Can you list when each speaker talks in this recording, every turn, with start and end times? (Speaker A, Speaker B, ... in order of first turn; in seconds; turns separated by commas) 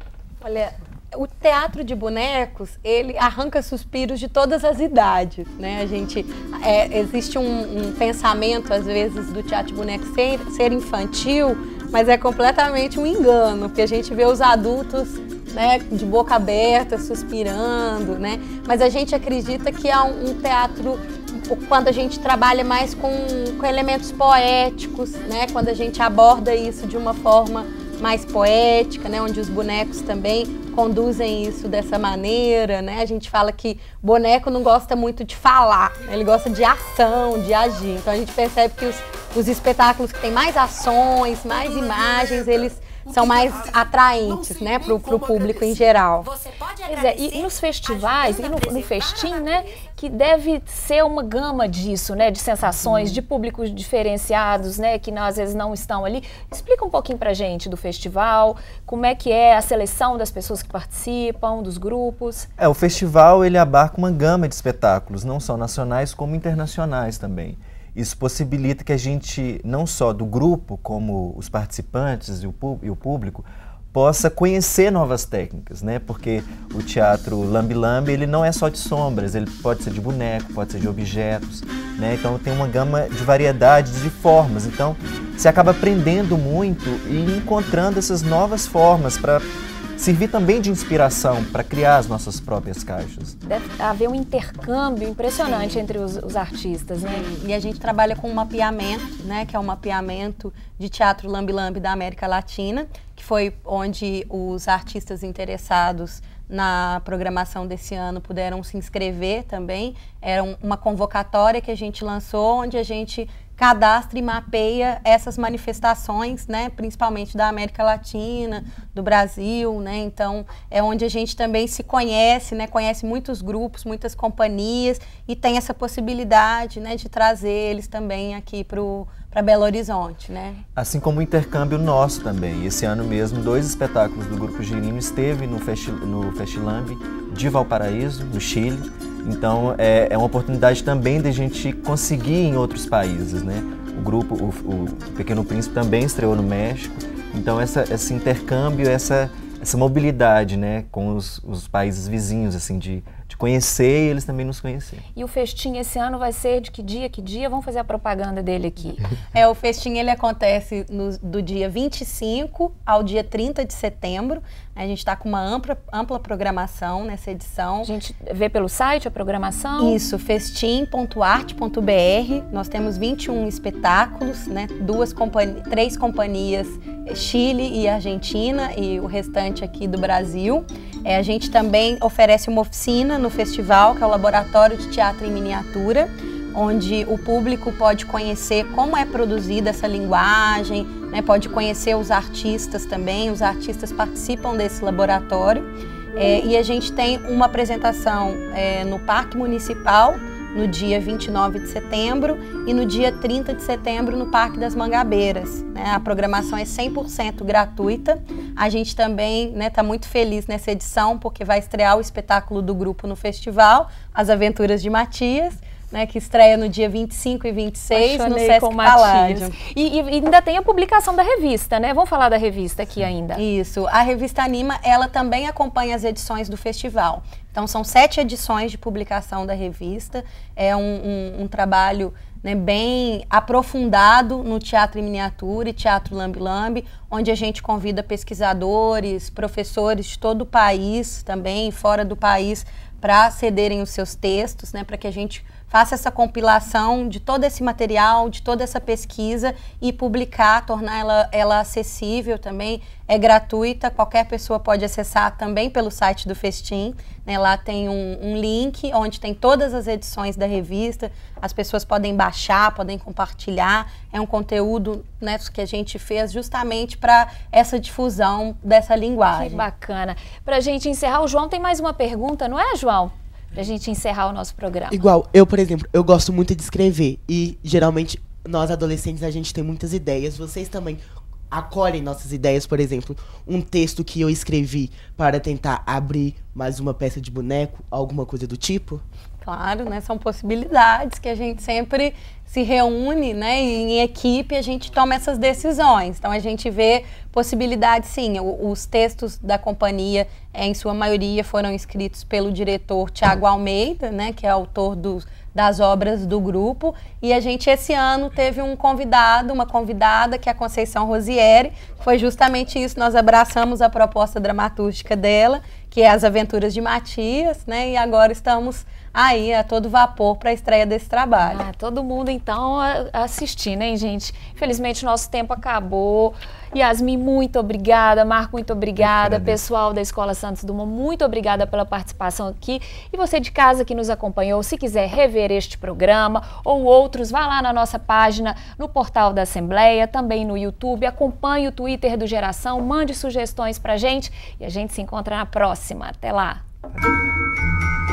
Speaker A: 0.4-46.3, Speaker B: 46.9-62.5, Speaker C: 62.6-93.4, Speaker B: 93.4-97.3, Speaker A: 95.4-95.8, Speaker A: 97.0-130.6, Speaker C: 130.8-155.0, Speaker B: 155.1-159.0, Speaker A: 159.3-167.9, Speaker B: 167.8-170.0, Speaker A: 169.8-219.6, Speaker B: 217.9-223.4, Speaker A: 223.3-269.6, Speaker B: 269.3-275.0, Speaker D: 274.9-289.0, Speaker A: 289.4-321.6, Speaker B: 321.4-346.6, Speaker C: 329.0-329.6